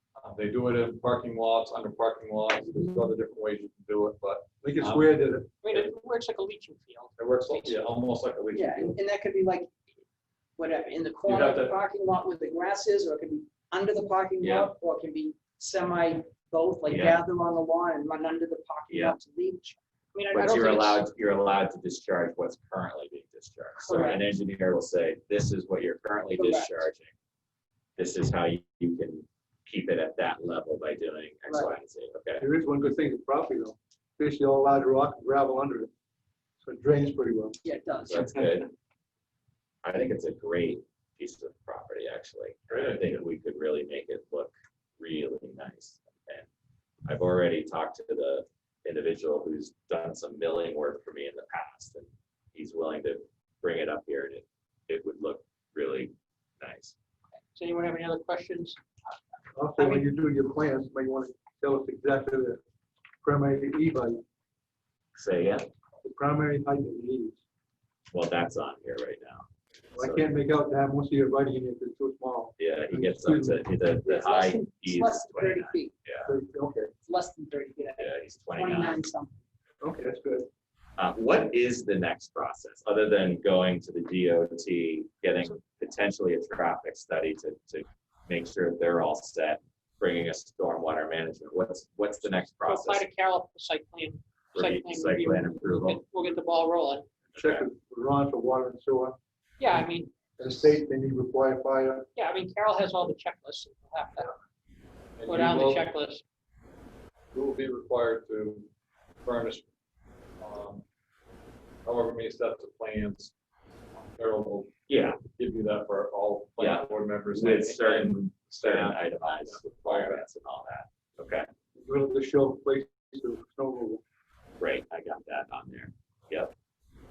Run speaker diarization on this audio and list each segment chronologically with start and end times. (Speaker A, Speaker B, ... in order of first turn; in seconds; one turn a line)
Speaker A: 0.2-5.2
Speaker B: 2.6-3.1
Speaker C: 4.6-5.5
Speaker D: 5.6-7.8
Speaker A: 7.2-8.9
Speaker B: 8.5-9.7
Speaker B: 10.6-20.4
Speaker A: 11.2-11.8
Speaker E: 14.4-14.7
Speaker E: 16.9-17.2
Speaker E: 18.9-19.2
Speaker D: 20.1-21.0
Speaker E: 20.3-27.1
Speaker B: 23.8-24.3
Speaker B: 26.3-26.8
Speaker E: 28.0-32.4
Speaker B: 31.5-31.7
Speaker C: 32.4-35.9
Speaker C: 36.6-37.6
Speaker B: 37.6-38.4
Speaker E: 38.1-38.7
Speaker E: 39.8-46.5
Speaker A: 42.7-43.0
Speaker E: 47.0-56.9
Speaker D: 57.5-58.8
Speaker C: 59.5-62.6
Speaker D: 59.8-60.0
Speaker C: 63.2-64.2
Speaker E: 65.1-65.7
Speaker C: 66.0-67.4
Speaker E: 68.1-69.5
Speaker C: 69.9-73.6
Speaker E: 70.0-70.3
Speaker E: 72.6-76.3
Speaker B: 74.0-75.9
Speaker C: 76.2-76.9
Speaker B: 77.0-79.4
Speaker E: 78.0-79.0
Speaker C: 79.8-80.5
Speaker E: 81.0-93.0
Speaker D: 92.5-97.1
Speaker E: 94.5-96.0
Speaker E: 97.3-97.7
Speaker C: 97.3-99.2
Speaker D: 99.6-100.1
Speaker C: 100.4-102.1
Speaker D: 102.2-104.3
Speaker A: 105.2-105.9
Speaker D: 105.3-106.2
Speaker A: 107.3-108.7
Speaker A: 109.2-109.7
Speaker A: 110.4-110.8
Speaker A: 111.8-113.3
Speaker A: 114.1-120.2
Speaker E: 114.9-115.2
Speaker E: 116.6-121.5
Speaker C: 121.8-124.0
Speaker E: 124.6-126.5